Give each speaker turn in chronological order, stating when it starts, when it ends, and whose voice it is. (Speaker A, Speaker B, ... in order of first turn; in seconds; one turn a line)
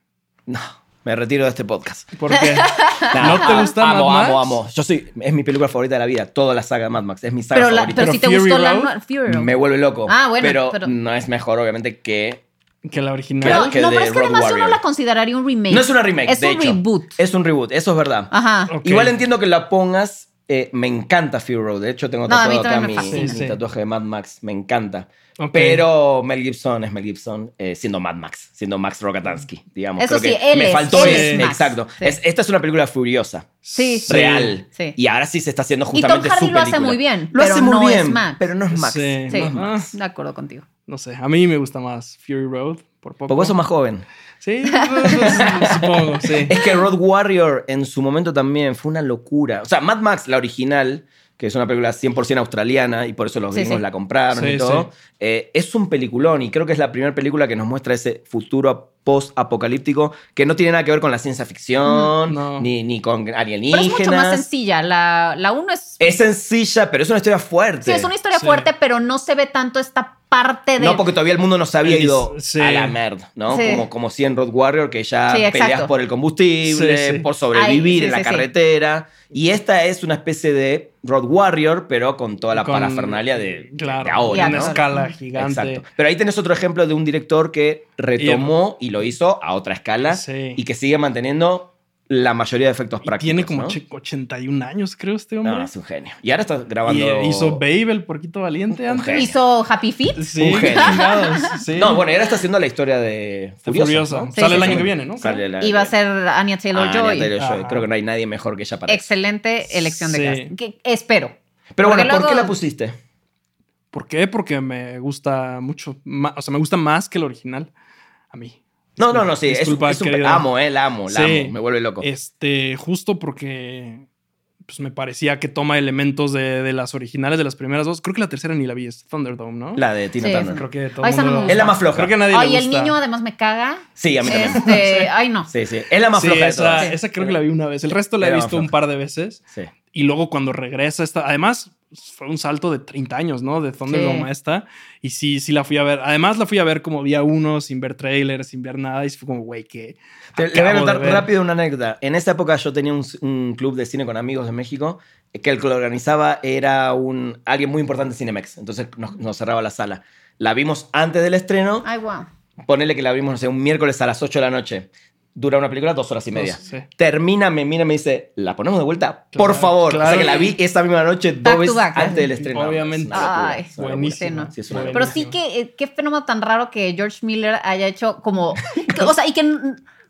Speaker A: 0.5-2.2
Speaker B: 2.1-4.6
Speaker C: 2.3-3.7
Speaker A: 3.1-8.1
Speaker C: 7.5-9.6
Speaker B: 7.9-8.9
Speaker A: 9.3-12.4
Speaker C: 10.1-10.9
Speaker B: 12.8-13.7
Speaker A: 13.4-14.8
Speaker C: 13.4-17.2
Speaker A: 15.7-18.3
Speaker C: 18.3-18.7
Speaker B: 18.7-19.2
Speaker A: 18.8-33.5
Speaker C: 22.3-23.4
Speaker B: 23.1-23.6
Speaker B: 25.4-25.8
Speaker C: 30.0-32.2
Speaker B: 30.9-31.5
Speaker B: 33.6-34.5
Speaker C: 33.8-35.0
Speaker A: 34.1-39.9
Speaker C: 35.9-38.4
Speaker B: 38.7-39.9
Speaker C: 39.3-40.6
Speaker B: 40.9-43.6
Speaker A: 43.3-44.0
Speaker B: 44.4-46.5
Speaker C: 44.7-45.5
Speaker A: 45.1-64.4
Speaker C: 53.5-53.8
Speaker B: 54.3-54.9
Speaker B: 62.3-62.7
Speaker C: 63.7-66.0
Speaker A: 66.0-68.1
Speaker C: 67.8-71.0
Speaker B: 68.3-68.7
Speaker A: 70.8-84.8
Speaker B: 71.8-73.0
Speaker C: 73.5-73.9
Speaker C: 75.3-75.9
Speaker B: 76.7-77.3
Speaker C: 77.5-78.5
Speaker B: 82.5-85.8
Speaker C: 84.3-85.2
Speaker A: 85.4-93.8
Speaker B: 88.2-88.5
Speaker B: 90.1-90.6
Speaker B: 93.0-95.7
Speaker A: 95.4-97.6
Speaker B: 96.8-99.3
Speaker A: 98.7-99.3
Speaker C: 99.1-101.6
Speaker B: 100.2-102.0
Speaker A: 100.4-101.0
Speaker A: 101.7-105.9
Speaker B: 103.7-105.4
Speaker C: 104.3-104.9
Speaker C: 105.5-107.3
Speaker A: 106.7-109.0
Speaker B: 107.4-107.9
Speaker C: 108.9-112.5
Speaker B: 109.7-110.5
Speaker A: 111.8-113.0
Speaker B: 113.9-117.7
Speaker B: 118.3-120.5
Speaker A: 119.0-122.1
Speaker B: 121.1-124.0
Speaker B: 124.7-129.8
Speaker A: 129.8-130.6
Speaker C: 130.2-135.5
Speaker B: 130.5-133.0
Speaker A: 131.4-132.1
Speaker A: 134.0-134.8
Speaker B: 134.4-135.1
Speaker A: 135.5-137.3
Speaker B: 136.1-139.4
Speaker A: 138.2-138.7
Speaker B: 139.9-151.3
Speaker C: 143.9-144.3
Speaker A: 150.4-161.9
Speaker C: 161.8-162.3
Speaker A: 162.7-175.1
Speaker B: 166.3-166.9
Speaker B: 169.3-170.5
Speaker C: 171.4-172.3
Speaker B: 172.4-175.3
Speaker C: 173.1-179.8
Speaker A: 178.7-179.1